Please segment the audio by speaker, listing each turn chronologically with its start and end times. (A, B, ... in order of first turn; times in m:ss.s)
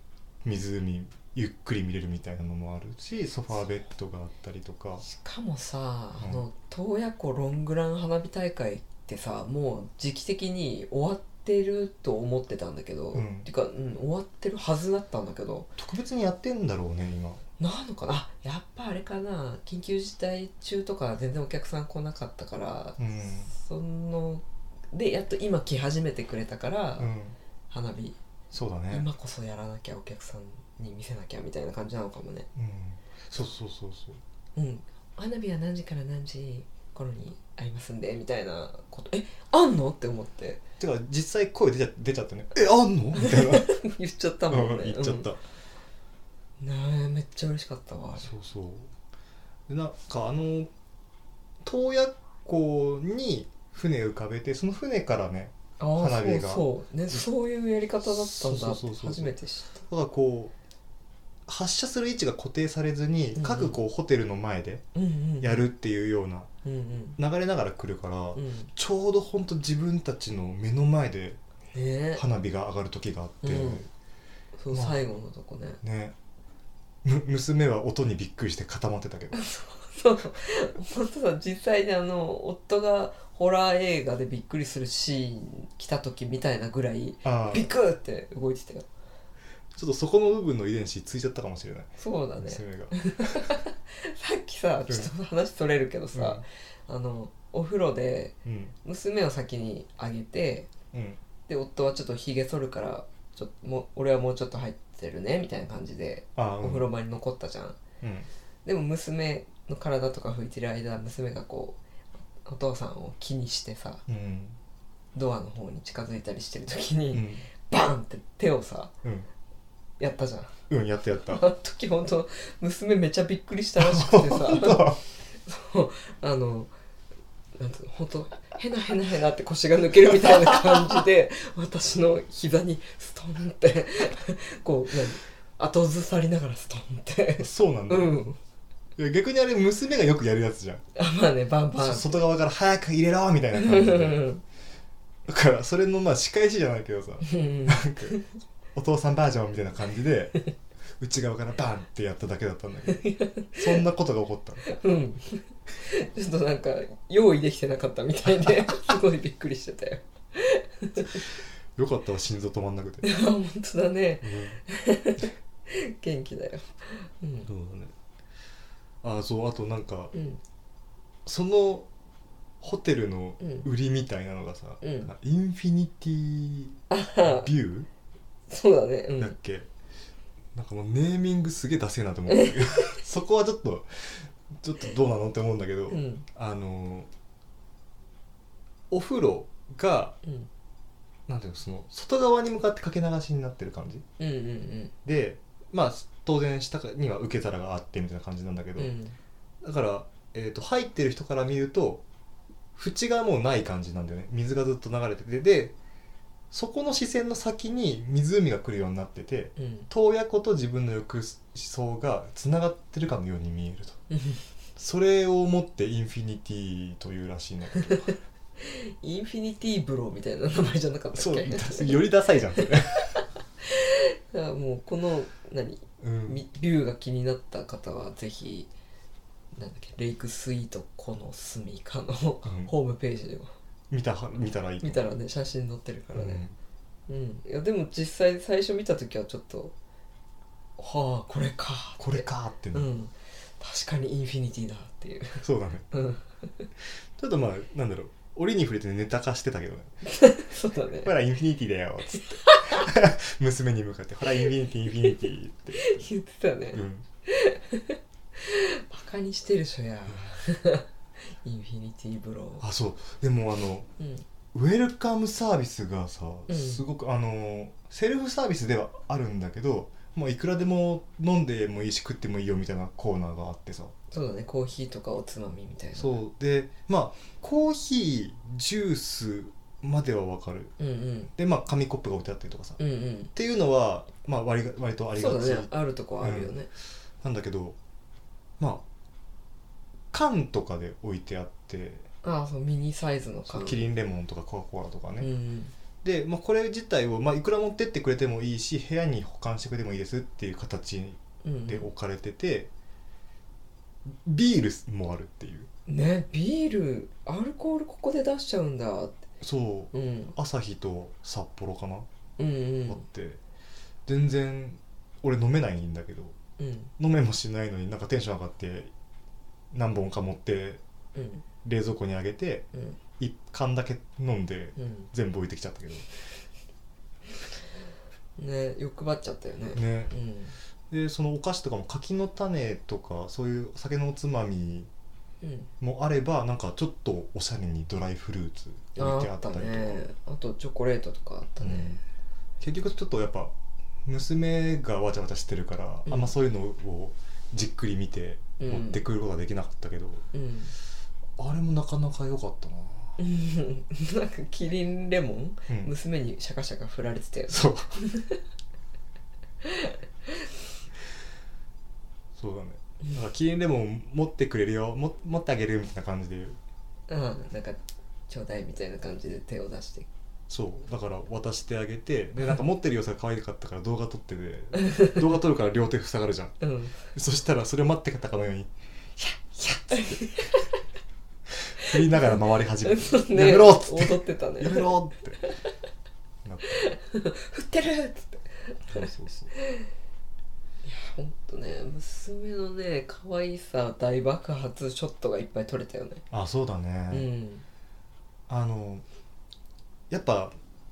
0:00.4-0:05.0 A
0:05.0-0:15.7 B
0:06.2-0:06.4 A
0:13.1-0:13.5 A
0:15.8-0:17.4 A
0:17.6-0:27.1 B
0:23.0-0:23.5 A
0:27.0-0:27.4 A
0:27.7-0:28.2 B
0:28.5-0:29.0 A
0:28.9-0:32.5 B
0:32.5-0:34.2 A
0:34.6-0:40.6 B
0:40.8-0:43.8 A
0:43.2-0:45.3 B
0:44.5-0:45.4 A
0:46.6-0:48.3 B
0:48.2-0:48.9 A
0:49.7-0:50.7 A
0:51.6-0:57.2 A
0:55.8-0:59.8 B
0:58.0-1:00.5 A
1:01.5-1:04.8 A
1:03.3-1:03.8 B
1:04.9-1:05.6 B
1:05.4-1:06.5 A
1:06.6-1:07.2 B
1:07.2-1:11.4 A
1:08.3-1:08.7 B
1:11.7-1:12.2 B
1:12.2-1:13.9 A
1:13.4-1:13.8 B
1:14.6-1:15.8 B
1:14.7-1:15.1 A
1:15.8-1:16.1 A
1:17.0-1:19.4 A
1:19.3-1:28.9 B
1:27.2-1:27.7 A
1:29.7-1:33.5 A
1:32.0-1:40.7 B
1:36.1-1:36.4 A
1:38.4-1:38.7 A
1:40.9-1:41.2 A
1:41.5-1:47.8 B
1:46.4-1:46.9 A
1:48.0-1:48.3 A
1:48.6-1:51.8 B
1:52.4-1:54.0 B
1:54.1-1:54.6 A
1:55.1-1:58.9 B
1:57.1-1:57.5 A
2:00.0-2:00.6 B
2:00.7-2:01.4 A
2:01.2-2:06.7 B
2:03.8-2:05.0 A
2:07.6-2:18.4 B
2:17.4-2:18.2 A
2:19.0-2:20.8 A
2:20.9-2:22.1 B
2:21.8-2:24.3 A
2:23.6-2:24.4 B
2:25.3-2:28.2 A
2:27.2-2:28.2 B
2:28.7-2:30.4 A
2:31.0-2:34.6 A
2:32.9-2:33.8 B
2:34.6-2:41.2 B
2:41.8-2:43.1 A
2:43.0-2:47.5 B
2:44.2-2:44.6 A
2:47.4-2:47.9 A
2:49.0-2:50.1 A
2:50.1-2:50.4 B
2:51.2-2:51.9 A
2:52.6-2:57.9 A
2:53.4-2:53.6 B
2:54.8-2:55.1 B
2:56.9-2:57.5 B
2:58.5-2:59.3 B
2:59.2-2:59.7 A
3:00.5-3:07.1 A
3:02.3-3:03.0 B
3:05.9-3:06.2 B
3:08.9-3:10.2 A
3:10.2-3:10.5 B
3:11.3-3:14.0 A
3:14.2-3:14.9 B
3:15.0-3:18.9 A
3:18.8-3:19.2 B
3:19.6-3:22.0 A
3:22.7-3:25.7 A
3:26.5-3:34.0 A
3:29.6-3:29.9 B
3:34.1-3:34.4 B
3:34.8-3:38.2 A
3:38.6-3:48.7 B
3:41.1-3:43.2 A
3:46.0-3:46.4 A
3:49.5-3:53.5 B
3:52.4-3:52.7 A
3:53.9-3:55.1 A
3:54.8-3:56.4 B
3:56.1-3:56.6 A
3:57.1-3:59.7 B
4:00.8-4:06.7 B
4:02.0-4:02.9 A
4:05.4-4:05.9 A
4:07.2-4:10.0 A
4:10.0-4:11.1 B
4:11.0-4:16.0 A
4:12.1-4:12.9 B
4:14.4-4:22.6 B
4:16.7-4:17.0 A
4:22.6-4:23.9 A
4:24.0-4:24.2 B
4:24.5-4:33.9 A
4:26.5-4:26.8 B
4:34.1-4:36.2 B
4:35.9-4:40.7 A
4:40.8-4:41.3 B
4:41.3-4:42.8 A
4:42.8-4:43.3 B
4:43.3-4:46.5 A
4:45.2-4:46.7 B
4:47.2-4:47.8 A
4:48.6-4:48.8 A
4:50.1-4:52.0 A
4:52.2-4:53.8 B
4:53.5-4:55.3 A
4:55.2-4:55.7 B
4:56.0-5:02.7 A
5:01.4-5:01.9 B
5:04.1-5:05.7 A
5:05.9-5:09.2 B
5:09.4-5:12.1 A
5:09.9-5:10.3 B
5:12.4-5:13.0 B
5:12.8-5:13.4 A
5:14.0-5:16.4 A
5:16.6-5:16.9 B
5:17.0-5:18.9 A
5:19.7-5:20.8 A
5:21.1-5:21.4 B
5:21.6-5:22.7 A
5:22.7-5:23.0 B
5:23.2-5:26.1 A
5:24.8-5:25.1 B
5:28.4-5:30.5 B
5:29.7-5:30.1 A
5:30.9-5:34.9 A
5:35.4-5:35.7 B
5:35.8-5:40.1 A
5:39.0-5:42.0 B
5:41.6-5:42.0 A
5:42.6-5:43.5 A
5:44.0-5:50.2 A
5:46.0-5:46.3 B
5:48.6-5:49.0 B
5:50.3-5:50.7 B
5:51.4-5:53.2 A
5:53.2-5:58.4 B
5:57.5-5:58.0 A
5:59.6-6:00.5 B
6:02.4-6:06.6 A
6:07.1-6:10.1 B
6:10.5-6:18.7 A
6:14.8-6:15.2 B
6:16.6-6:17.0 B
6:19.2-6:20.8 B
6:19.6-6:20.5 A
6:21.6-6:25.5 A
6:21.8-6:24.9 B
6:26.4-6:26.9 A
6:26.7-6:29.9 B
6:28.9-6:29.5 A
6:30.8-6:36.2 B
6:36.3-6:37.3 A
6:37.1-6:37.6 B
6:38.5-6:39.0 A
6:40.1-6:40.5 A